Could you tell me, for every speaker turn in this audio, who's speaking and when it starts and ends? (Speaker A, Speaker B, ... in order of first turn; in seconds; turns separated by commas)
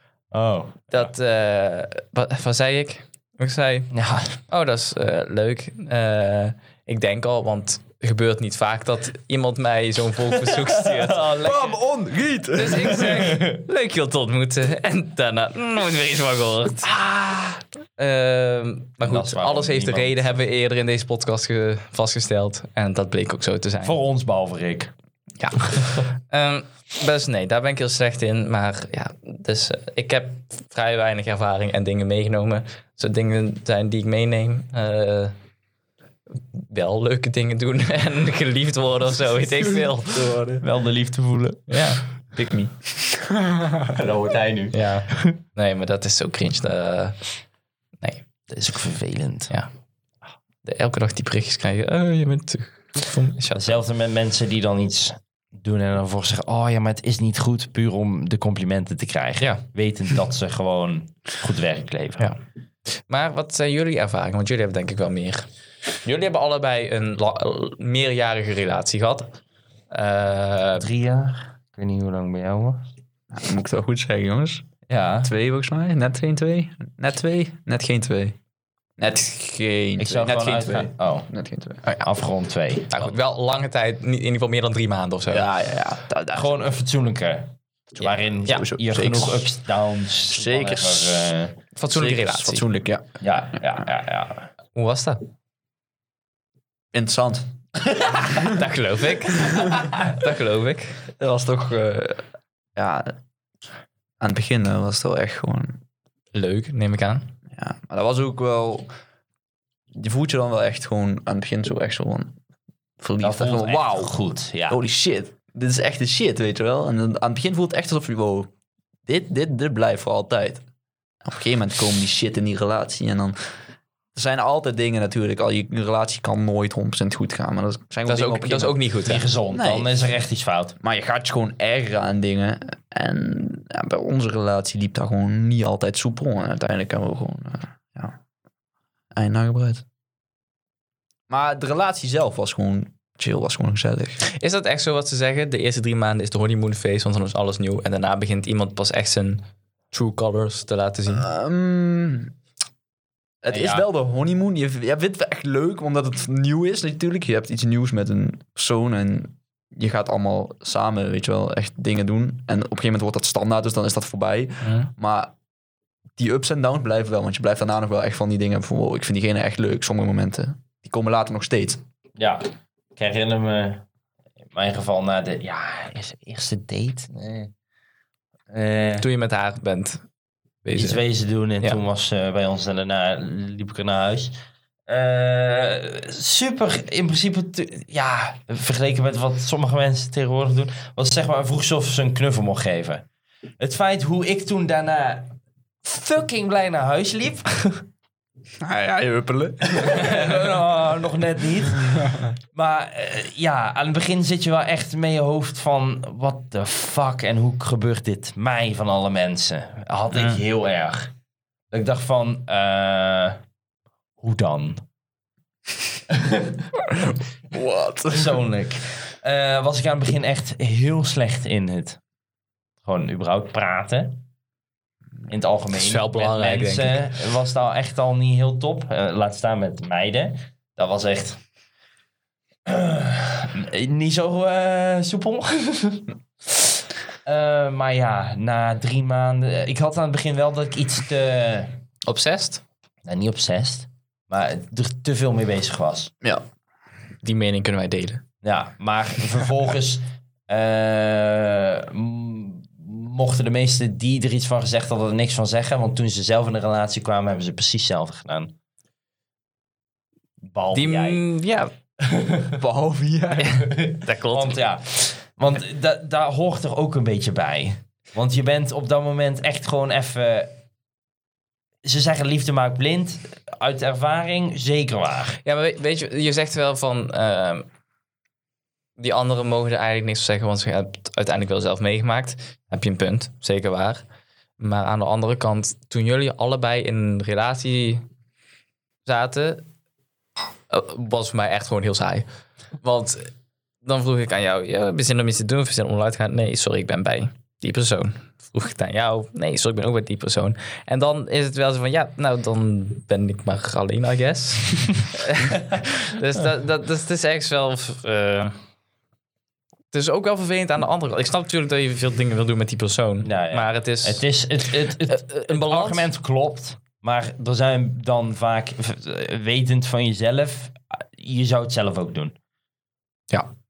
Speaker A: 0.3-1.1, Speaker B: 0.9-3.9, Speaker A: 3.9-4.4, Speaker B: 4.5-11.7, Speaker A: 10.3-11.8, Speaker C: 11.4-13.3, Speaker B: 12.5-17.0, Speaker A: 12.9-13.6, Speaker C: 17.1-17.4, Speaker B: 18.0-24.0, Speaker A: 19.0-20.3, Speaker A: 23.8-24.9, Speaker B: 25.4-35.4, Speaker B: 36.6-40.4, Speaker C: 39.6-40.6, Speaker A: 40.6-41.9, Speaker B: 41.7-42.0, Speaker C: 42.4-43.9, Speaker A: 43.9-45.3, Speaker B: 44.7-47.2, Speaker A: 48.5-49.5, Speaker B: 50.6-53.8, Speaker A: 53.5-62.3, Speaker B: 63.1-65.5, Speaker B: 66.0-69.4, Speaker B: 69.9-70.9, Speaker A: 70.8-72.8, Speaker C: 73.3-74.6, Speaker A: 74.9-75.3, Speaker C: 75.2-78.4, Speaker C: 79.0-82.0, Speaker A: 80.0-81.3, Speaker A: 82.0-83.1, Speaker B: 82.9-85.5, Speaker C: 85.3-86.5, Speaker A: 86.3-91.6, Speaker C: 88.0-89.5, Speaker C: 90.3-91.3, Speaker B: 91.8-92.7, Speaker C: 91.9-93.1, Speaker A: 93.2-94.5, Speaker B: 94.8-95.2, Speaker C: 96.9-97.5, Speaker B: 98.3-101.0, Speaker C: 99.4-99.9, Speaker C: 101.2-102.2, Speaker C: 102.8-103.1, Speaker C: 104.2-105.8, Speaker B: 106.3-107.3, Speaker C: 107.5-108.9, Speaker C: 109.9-112.4, Speaker C: 113.0-114.1, Speaker A: 113.2-114.8, Speaker C: 114.7-118.5, Speaker C: 119.1-120.6, Speaker C: 121.2-123.4, Speaker C: 124.2-128.8, Speaker B: 128.1-129.3, Speaker A: 129.0-130.8, Speaker C: 129.5-129.9, Speaker C: 130.8-138.2, Speaker C: 139.2-139.8, Speaker C: 141.3-144.2, Speaker B: 144.3-151.3, Speaker C: 151.1-152.3, Speaker C: 153.4-165.3, Speaker A: 153.5-153.9, Speaker B: 164.6-164.9, Speaker C: 166.2-171.8, Speaker A: 172.2-173.8, Speaker A: 174.5-177.5, Speaker A: 178.5-179.1, Speaker B: 179.0-180.0, Speaker B: 180.7-181.0, Speaker A: 180.8-184.4, Speaker A: 184.9-193.1, Speaker A: 193.6-197.8, Speaker C: 198.6-200.4, Speaker A: 199.7-211.1, Speaker C: 202.0-202.3, Speaker B: 210.1-210.4, Speaker A: 211.7-213.4, Speaker A: 214.2-214.8, Speaker A: 216.1-216.7, Speaker C: 216.9-218.4, Speaker A: 218.1-222.0, Speaker A: 222.8-224.2, Speaker A: 225.3-231.4, Speaker B: 225.7-227.0, Speaker A: 232.7-241.8, Speaker B: 242.1-242.6, Speaker A: 243.1-246.1, Speaker B: 247.2-248.2, Speaker A: 248.4-258.5, Speaker A: 260.4-261.2, Speaker B: 260.7-261.7, Speaker A: 262.0-262.6, Speaker C: 262.6-263.7, Speaker B: 263.5-264.6, Speaker A: 263.6-270.6, Speaker A: 271.8-275.4, Speaker B: 275.4-277.7, Speaker B: 279.0-284.0, Speaker B: 284.6-288.1, Speaker B: 289.1-289.7, Speaker B: 290.7-292.3, Speaker B: 292.8-293.3, Speaker B: 293.8-308.6, Speaker B: 309.9-314.2, Speaker A: 313.2-322.4, Speaker B: 315.1-316.1